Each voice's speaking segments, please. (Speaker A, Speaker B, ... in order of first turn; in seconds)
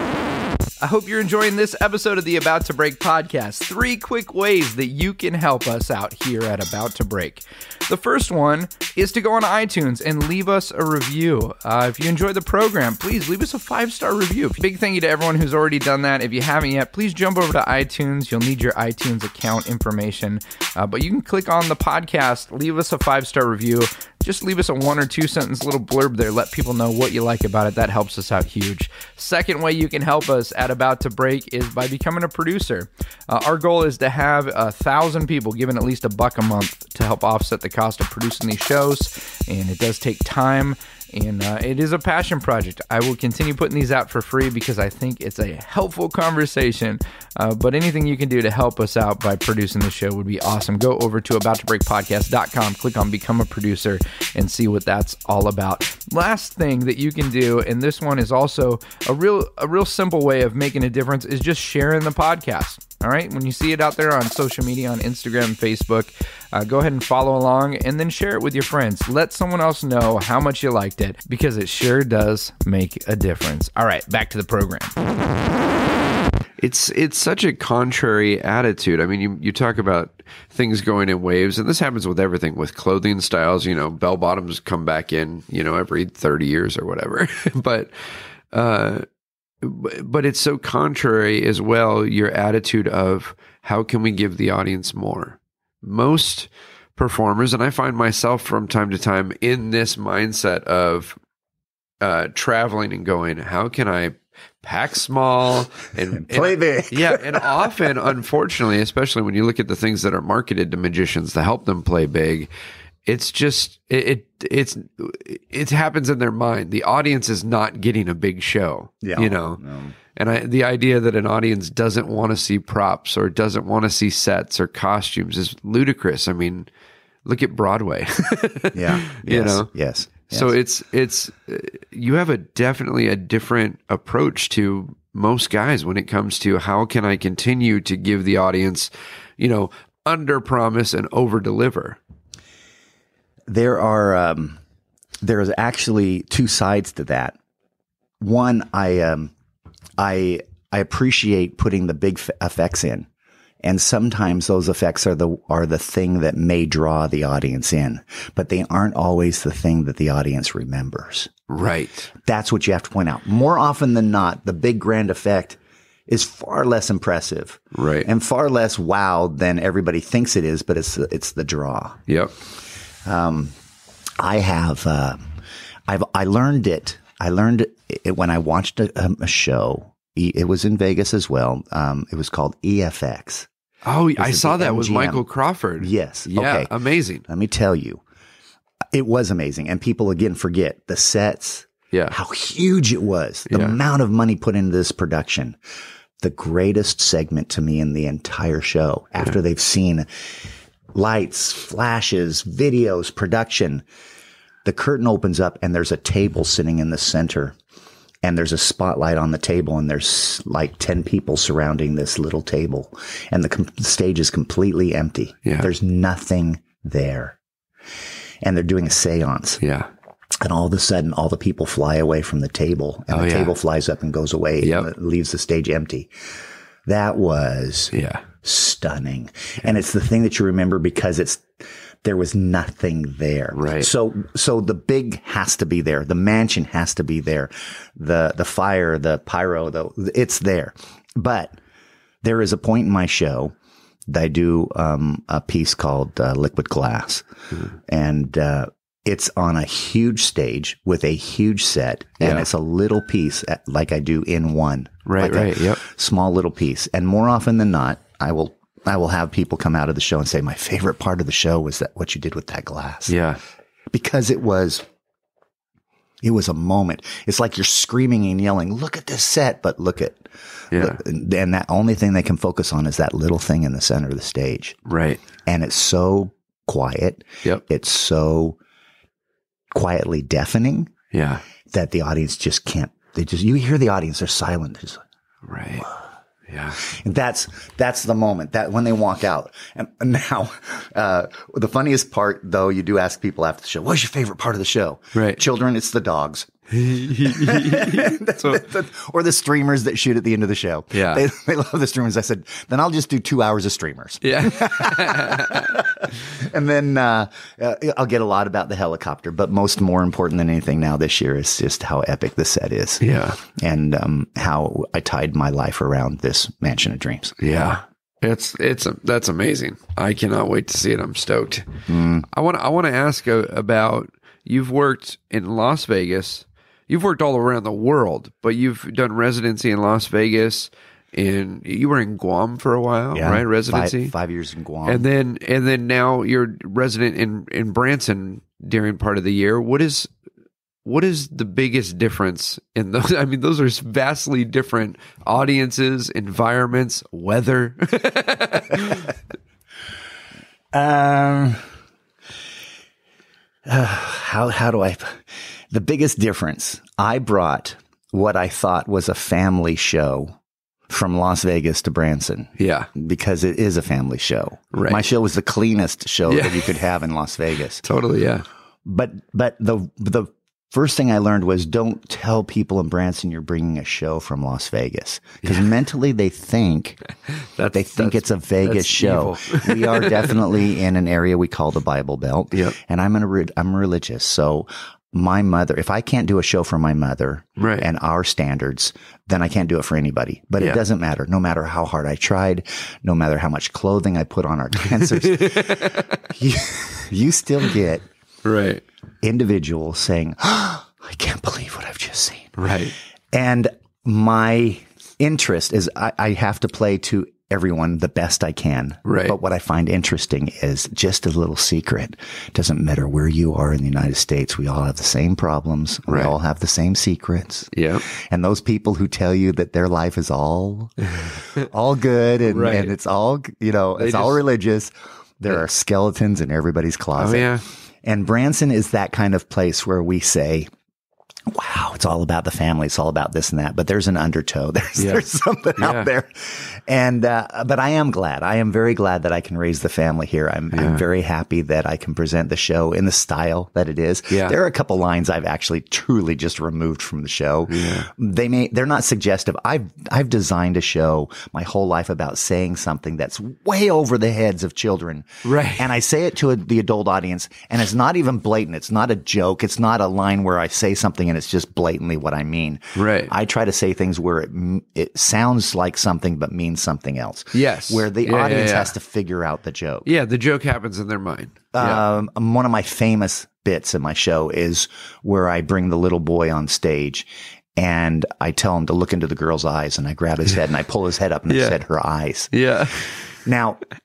Speaker A: 0.8-75.0
Speaker B: 76.6-87.9, 88.5-89.1, 89.6-101.2, 102.0-112.5, 113.1-119.6, 120.2-126.7, 127.3-129.7, 130.2-142.0, 161.5-162.1, 167.8-168.1, 172.1-172.3, 183.8-187.2, 191.9-192.2, 193.5-193.8, 215.4-215.7, 219.6-219.9, 223.1-223.5, 224.6-224.9, 227.9-228.2, 233.5-233.9, 252.2-252.5, 255.1-255.8, 263.1-263.4, 270.7-271.0, 274.9-275.2, 281.1-281.4, 285.5-285.9, 286.5-286.8, 295.1-295.4, 296.7-298.6, 300.9-301.2, 304.2-305.8, 313.0-313.4, 317.4-321.7, 322.3-334.1, 334.9-340.1, 340.9-349.1, 362.6-362.9, 364.7-365.1, 366.3-366.8, 367.8-368.4, 377.4-380.5, 387.6-387.9, 395.2-396.1, 398.4-398.8, 402.6-402.9, 409.1-409.4, 416.1-416.3, 417.7-418.1, 422.4-422.9, 424.0-424.4, 427.2-427.6, 435.0-435.2, 435.8-436.1, 440.7-441.0, 444.3-444.6, 447.7-448.1, 455.4-455.9, 463.0-463.3, 467.5-468.9, 470.1-472.0, 481.5-481.8, 482.5-483.2
Speaker C: 106.2-108.0, 119.0-120.0, 128.7-130.5, 143.5-144.6, 145.2-147.4, 148.2-149.3, 150.0-153.1, 153.6-161.3, 162.2-172.0, 173.1-173.5, 174.2-175.2, 175.9-183.5, 184.2-185.2, 185.8-186.7, 187.3-188.0, 188.9-195.6, 196.2-200.1, 200.9-203.8, 204.7-207.6, 208.2-217.4, 218.4-219.6, 220.4-226.1, 226.9-241.6, 242.2-243.5, 244.1-247.3, 247.9-263.2, 263.9-264.9, 266.2-274.8, 275.5-278.6, 279.7-280.9, 281.7-285.0, 286.8-296.5, 297.2-317.4, 321.9-322.3, 333.1-335.1, 350.7-351.7, 353.7-360.4, 360.9-367.8, 368.9-377.0, 377.7-398.1, 399.2-402.6, 403.3-427.5, 428.0-430.7, 431.5-470.1, 471.7-482.5, 483.4-483.8